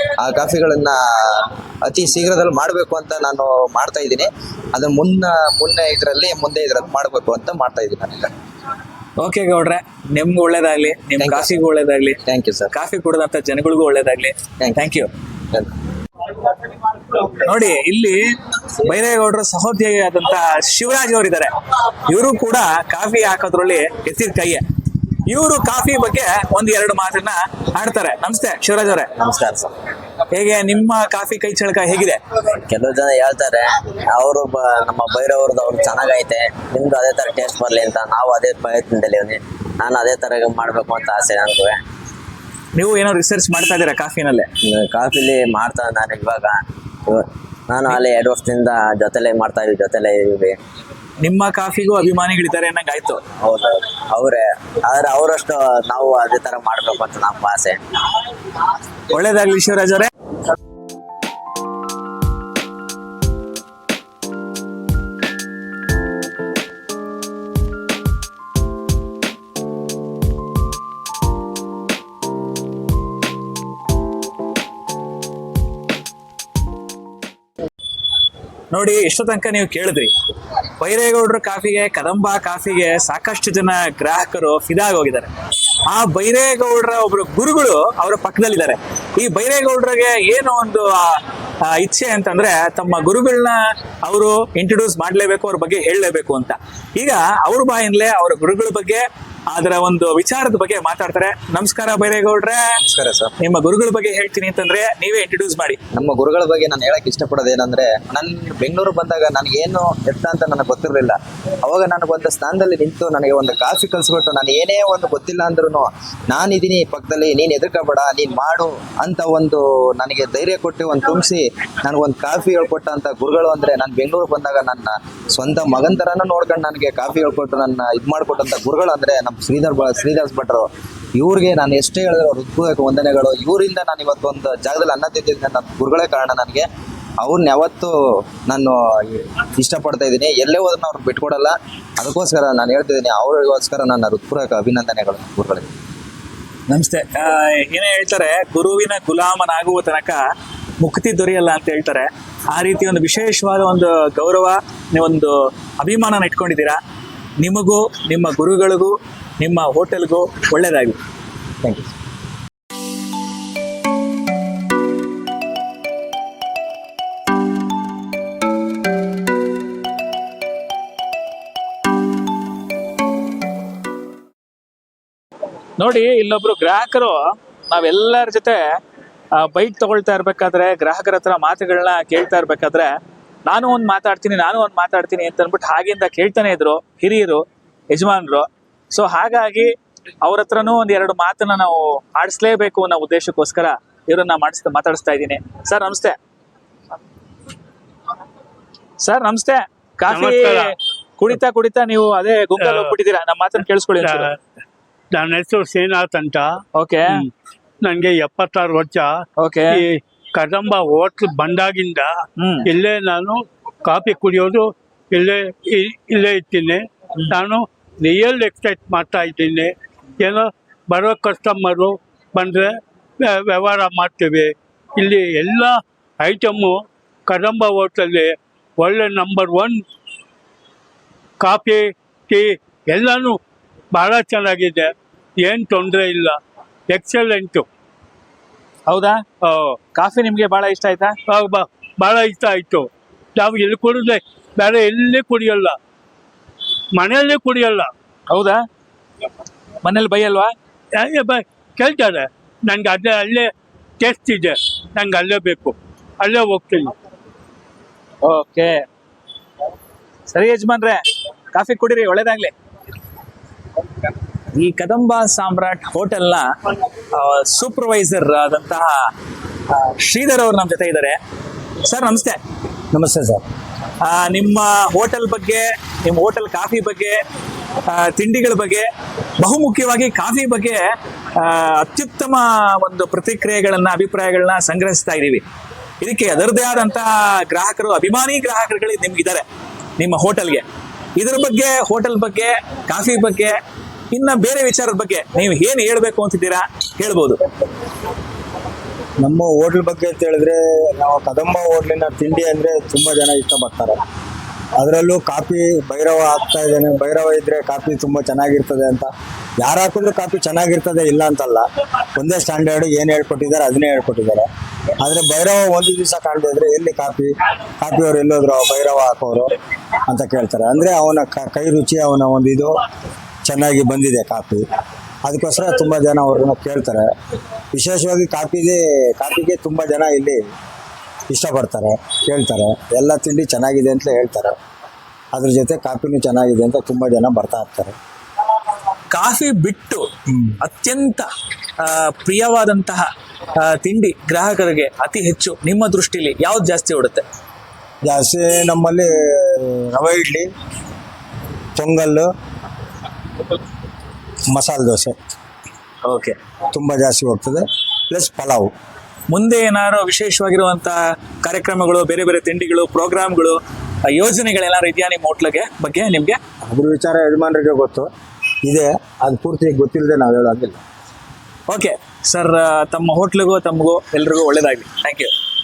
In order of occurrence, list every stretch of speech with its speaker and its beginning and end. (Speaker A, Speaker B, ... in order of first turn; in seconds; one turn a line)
Speaker A: 0.2-8.3
Speaker B: 9.2-12.2
Speaker A: 11.2-11.5
Speaker A: 12.3-12.7
Speaker B: 12.7-15.1
Speaker B: 17.1-18.2
Speaker B: 18.8-21.5
Speaker B: 22.1-24.6
Speaker B: 25.2-29.1
Speaker C: 29.2-29.7
Speaker B: 30.3-32.2
Speaker C: 32.7-41.8
Speaker B: 42.8-44.5
Speaker C: 44.7-50.6
Speaker B: 51.2-53.2
Speaker C: 53.4-57.8
Speaker B: 59.1-60.1
Speaker B: 78.7-80.1
Speaker B: 80.8-85.3
Speaker B: 85.9-91.1
Speaker B: 91.7-102.6
Speaker A: 102.9-103.3
Speaker B: 103.4-105.8
Speaker A: 106.0-136.7
Speaker A: 137.2-137.9
Speaker A: 138.5-145.7
Speaker B: 146.7-150.2
Speaker B: 150.8-156.8
Speaker B: 157.4-161.0
Speaker A: 161.6-161.9
Speaker B: 175.8-177.2
Speaker B: 177.7-178.6
Speaker B: 179.4-182.9
Speaker B: 183.5-189.7
Speaker B: 190.2-196.2
Speaker B: 199.0-204.3
Speaker D: 200.1-200.7
Speaker D: 204.0-204.3
Speaker D: 205.1-206.5
Speaker B: 206.8-207.2
Speaker D: 207.8-209.1
Speaker B: 209.4-209.8
Speaker D: 209.8-222.8
Speaker B: 212.4-212.7
Speaker D: 223.3-229.8
Speaker D: 231.4-233.4
Speaker D: 233.9-234.9
Speaker D: 235.4-236.4
Speaker D: 236.9-237.6
Speaker B: 238.9-239.2
Speaker D: 239.4-239.8
Speaker B: 239.9-241.2
Speaker D: 241.3-245.8
Speaker D: 247.0-247.9
Speaker B: 248.3-248.6
Speaker B: 249.8-250.5
Speaker D: 251.0-253.5
Speaker D: 254.0-256.9
Speaker B: 258.2-258.8
Speaker B: 260.3-261.0
Speaker B: 261.5-262.5
Speaker B: 264.5-266.5
Speaker B: 267.1-269.1
Speaker B: 269.7-271.2
Speaker B: 271.8-272.4
Speaker E: 272.9-273.4
Speaker B: 274.0-277.2
Speaker B: 277.9-278.9
Speaker B: 279.4-280.8
Speaker B: 281.4-285.4
Speaker B: 286.0-289.4
Speaker B: 290.0-290.6
Speaker B: 291.2-293.5
Speaker B: 294.1-297.4
Speaker E: 299.2-304.0
Speaker E: 304.8-311.6
Speaker E: 312.1-314.5
Speaker E: 315.0-319.5
Speaker E: 320.1-322.7
Speaker E: 323.4-324.6
Speaker E: 325.2-327.1
Speaker E: 327.7-330.4
Speaker E: 331.3-334.5
Speaker E: 335.3-337.9
Speaker B: 339.1-340.1
Speaker B: 340.6-341.3
Speaker B: 341.8-347.2
Speaker E: 348.0-350.5
Speaker E: 351.8-352.3
Speaker E: 354.5-355.1
Speaker B: 356.1-356.4
Speaker E: 356.7-358.7
Speaker B: 359.3-366.4
Speaker E: 366.7-368.1
Speaker E: 368.6-370.8
Speaker B: 371.7-375.3